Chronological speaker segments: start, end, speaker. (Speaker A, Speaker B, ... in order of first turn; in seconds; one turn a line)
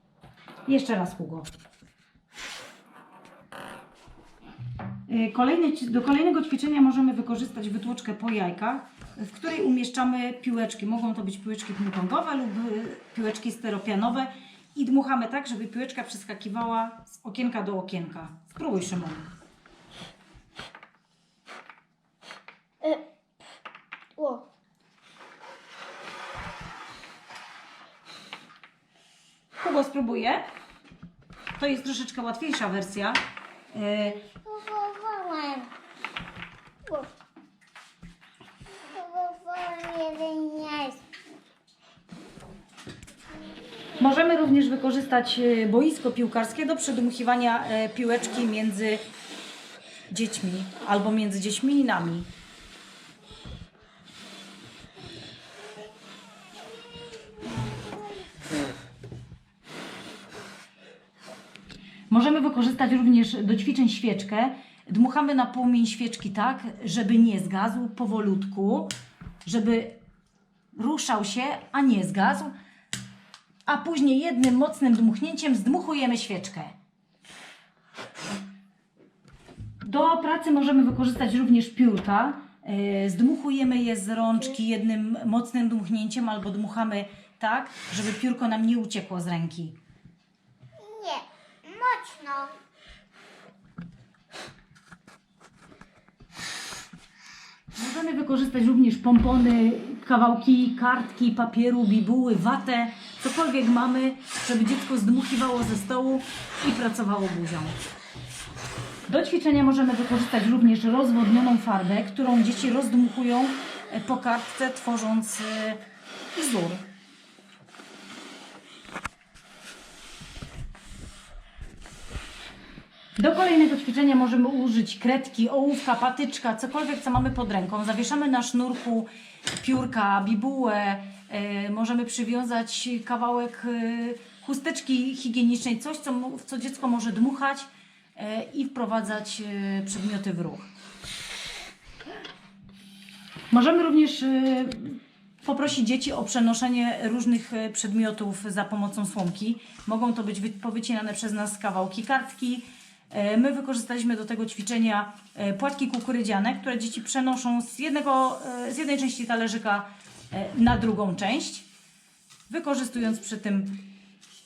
Speaker A: 0.7-1.5
Speaker A: 5.1-19.3
Speaker B: 24.2-24.4
Speaker A: 29.6-30.4
Speaker A: 31.6-33.2
Speaker A: 33.7-34.2
Speaker B: 34.2-35.7
Speaker B: 38.9-41.0
Speaker A: 44.0-49.0
Speaker A: 50.1-52.3
Speaker A: 62.1-68.9
Speaker A: 69.4-70.0
Speaker A: 70.7-72.5
Speaker A: 73.7-76.7
Speaker A: 79.8-89.7
Speaker B: 90.8-92.5
Speaker A: 97.7-107.8
Speaker A: 109.1-115.8
Speaker A: 116.3-116.8
Speaker A: 123.2-140.7
Speaker A: 143.5-161.7
Speaker A: 162.5-163.8